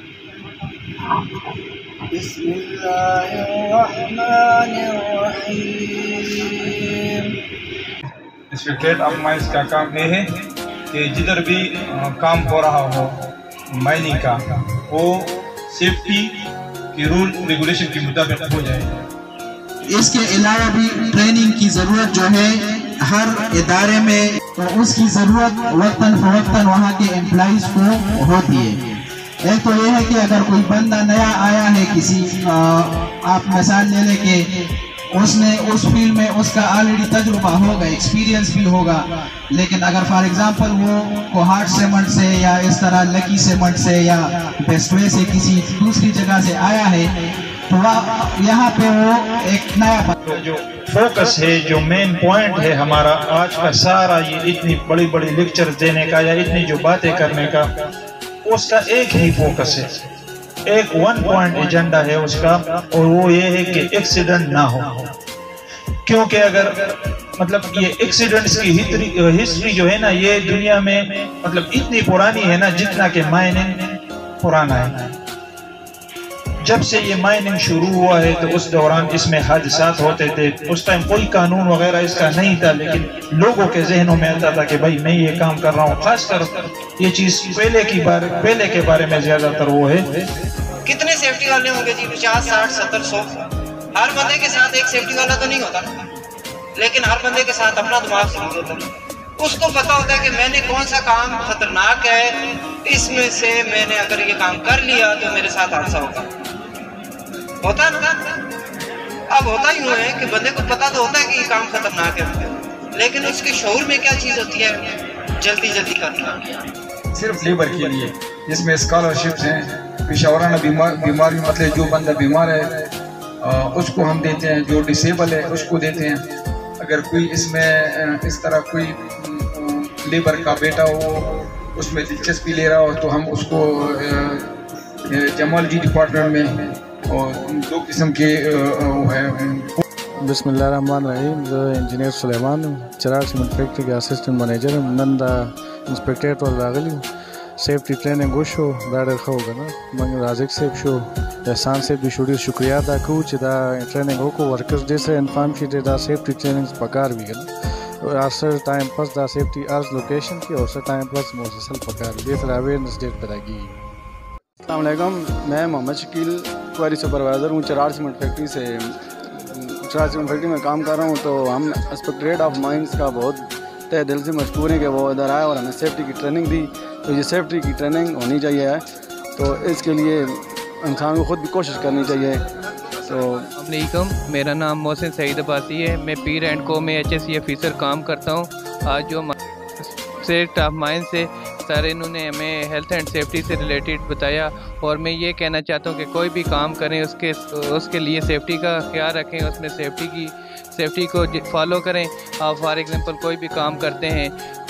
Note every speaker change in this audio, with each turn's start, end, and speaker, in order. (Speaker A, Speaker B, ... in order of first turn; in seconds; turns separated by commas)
Speaker A: 2.1-7.6, Speaker B: 8.5-10.3, Speaker B: 10.9-14.8, Speaker C: 15.7-16.3, Speaker B: 16.9-19.0, Speaker C: 17.3-18.4, Speaker D: 19.9-47.1, Speaker D: 47.7-50.1, Speaker C: 50.2-57.7, Speaker C: 58.4-60.0, Speaker C: 60.7-65.1, Speaker C: 66.0-75.1, Speaker C: 76.6-90.3, Speaker A: 90.8-96.1, Speaker A: 96.7-106.3, Speaker A: 107.6-108.4, Speaker A: 109.3-116.7, Speaker B: 117.1-122.7, Speaker B: 123.4-126.2, Speaker B: 126.8-134.5, Speaker B: 135.1-139.7, Speaker E: 140.2-147.0, Speaker E: 147.6-157.5, Speaker E: 158.0-163.8, Speaker F: 164.7-178.8, Speaker F: 179.3-183.5, Speaker G: 183.6-204.3